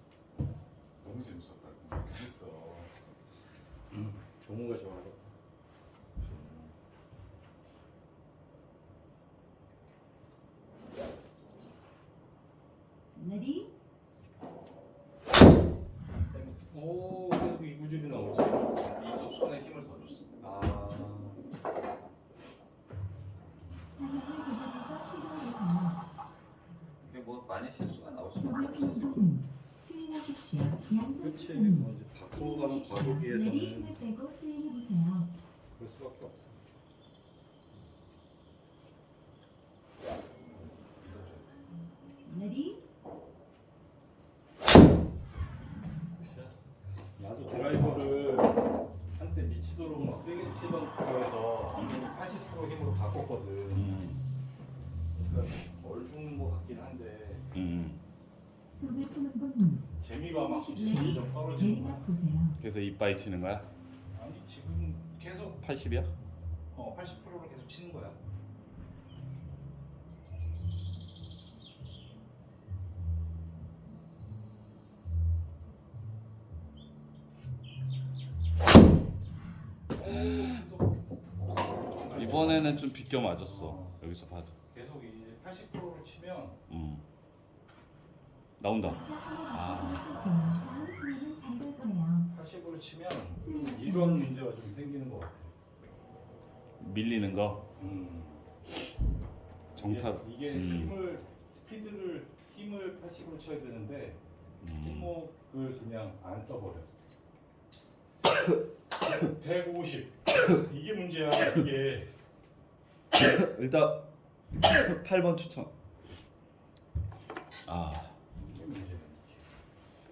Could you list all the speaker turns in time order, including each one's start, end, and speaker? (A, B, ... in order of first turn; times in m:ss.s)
0:01.0-0:02.9 A
0:03.9-0:05.3 B
0:13.1-0:13.7 C
0:16.3-0:18.8 B
0:18.8-0:20.3 A
0:20.4-0:21.4 B
0:24.0-0:26.0 C
0:27.0-0:29.3 A
0:28.4-0:35.3 C
0:31.2-0:34.0 B
0:35.8-0:36.7 B
0:41.0-0:41.5 A
0:42.2-0:42.8 C
0:46.2-0:46.6 B
0:47.2-0:48.6 B
0:49.2-0:54.0 B
0:51.7-0:52.1 A
0:53.7-0:54.2 A
0:55.2-0:57.4 B
0:57.5-0:58.0 A
0:58.8-1:02.6 C
1:00.0-1:02.1 B
1:02.6-1:03.7 A
1:04.1-1:05.6 B
1:05.6-1:06.1 A
1:06.7-1:08.2 B
1:19.9-1:21.0 B
1:20.0-1:20.6 A
1:21.9-1:22.8 B
1:22.1-1:24.5 A
1:23.3-1:24.0 B
1:24.7-1:26.6 B
1:26.7-1:27.0 A
1:28.6-1:30.1 A
1:28.8-1:32.3 C
1:30.0-1:30.8 B
1:32.3-1:35.5 B
1:33.4-1:34.3 C
1:36.8-1:37.6 A
1:37.8-1:38.4 B
1:39.8-1:41.0 A
1:39.8-1:44.2 B
1:44.6-1:45.1 A
1:44.7-1:46.9 B
1:49.0-1:52.1 B
1:53.2-1:54.0 A
1:54.6-1:55.7 A
1:57.6-1:58.2 A
1:58.4-1:59.4 B